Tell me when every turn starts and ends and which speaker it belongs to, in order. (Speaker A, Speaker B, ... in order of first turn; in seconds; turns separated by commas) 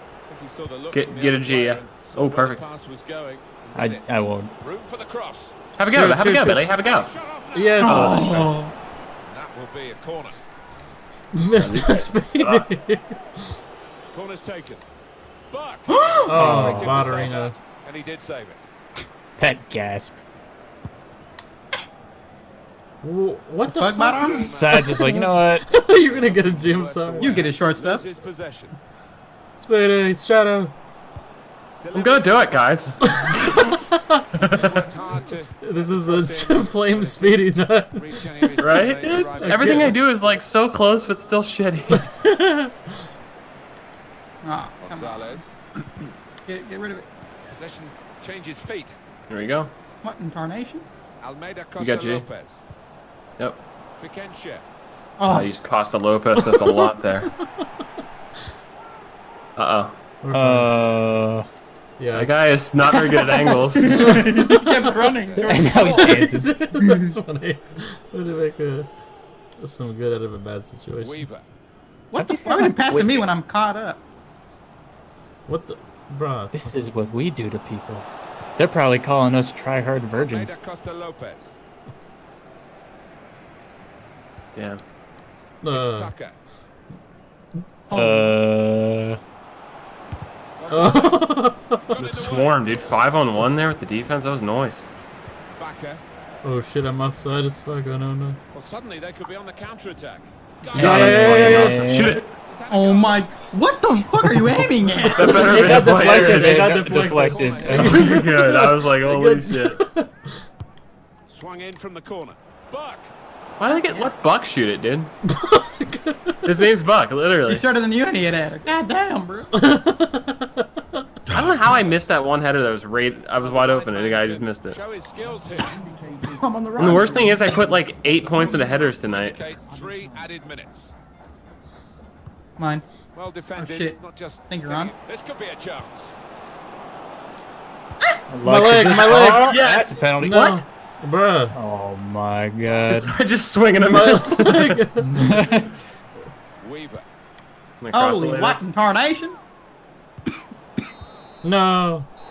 Speaker A: 0.3-5.5, Speaker B: 0.9-2.7, Speaker C: 3.8-4.5, Speaker B: 5.8-7.1, Speaker D: 5.9-6.7, Speaker A: 6.7-8.4, Speaker D: 7.5-8.2, Speaker E: 7.8-8.7, Speaker B: 7.9-8.5, Speaker A: 9.2-10.4, Speaker D: 11.3-13.5, Speaker B: 11.6-12.7, Speaker A: 14.1-14.8, Speaker A: 15.5-18.7, Speaker E: 15.9-16.5, Speaker D: 16.3-17.6, Speaker C: 16.4-17.1, Speaker C: 19.4-20.2, Speaker D: 23.0-27.4, Speaker E: 23.7-24.6, Speaker A: 24.0-28.8, Speaker C: 24.4-25.6, Speaker E: 27.2-28.1, Speaker D: 29.6-30.7, Speaker A: 31.8-32.8, Speaker B: 31.9-33.6, Speaker D: 33.0-34.2, Speaker B: 34.4-34.9, Speaker A: 34.5-40.0, Speaker D: 35.1-38.5, Speaker B: 38.6-42.0, Speaker D: 39.4-40.0, Speaker D: 41.9-43.0, Speaker E: 44.4-45.4, Speaker A: 44.8-45.5, Speaker E: 46.5-47.1, Speaker A: 47.5-49.0, Speaker B: 49.3-49.7, Speaker E: 50.0-50.9, Speaker A: 51.2-52.7, Speaker B: 51.8-52.3, Speaker A: 54.0-54.6, Speaker E: 55.2-55.5, Speaker B: 55.2-57.3, Speaker D: 56.3-57.9, Speaker B: 59.6-60.0, Speaker D: 60.2-60.7, Speaker C: 60.3-61.5, Speaker D: 62.0-68.9, Speaker B: 62.1-64.1, Speaker E: 63.6-67.1, Speaker A: 65.2-65.5, Speaker C: 65.4-66.5, Speaker D: 69.6-71.3, Speaker A: 71.0-71.5, Speaker E: 72.1-74.0, Speaker C: 72.2-73.3, Speaker D: 75.5-76.7, Speaker C: 76.5-80.6, Speaker A: 80.1-81.6, Speaker B: 84.5-84.8, Speaker D: 85.6-86.1, Speaker A: 85.7-86.4, Speaker E: 87.9-88.4, Speaker C: 87.9-89.2, Speaker A: 90.6-91.4, Speaker D: 90.7-92.0, Speaker A: 91.9-93.2, Speaker B: 92.0-94.9, Speaker A: 95.5-96.0, Speaker D: 96.4-98.4, Speaker A: 98.5-101.9, Speaker C: 100.7-102.2, Speaker D: 100.8-102.2, Speaker B: 101.4-102.3, Speaker A: 102.5-103.5, Speaker E: 102.7-105.8, Speaker B: 105.1-106.6, Speaker D: 105.2-110.4, Speaker C: 105.7-108.0, Speaker A: 105.8-108.3, Speaker B: 107.8-109.8, Speaker A: 111.3-113.1, Speaker B: 113.6-115.1, Speaker E: 113.7-114.1, Speaker D: 115.2-116.7, Speaker B: 116.5-117.6, Speaker E: 117.5-119.5, Speaker D: 119.5-120.7, Speaker B: 121.3-124.8, Speaker A: 123.4-126.0, Speaker E: 126.2-127.6, Speaker B: 126.8-129.5, Speaker A: 128.1-130.9, Speaker E: 132.6-132.8, Speaker A: 133.1-136.2, Speaker E: 133.6-134.9, Speaker C: 138.3-140.6, Speaker D: 138.4-139.6, Speaker B: 139.4-140.1, Speaker D: 140.1-141.6, Speaker C: 141.5-143.2, Speaker B: 142.9-144.8, Speaker D: 143.8-145.2, Speaker C: 145.0-145.7, Speaker A: 146.6-147.1, Speaker B: 147.8-148.7, Speaker E: 147.9-149.4, Speaker D: 151.4-152.1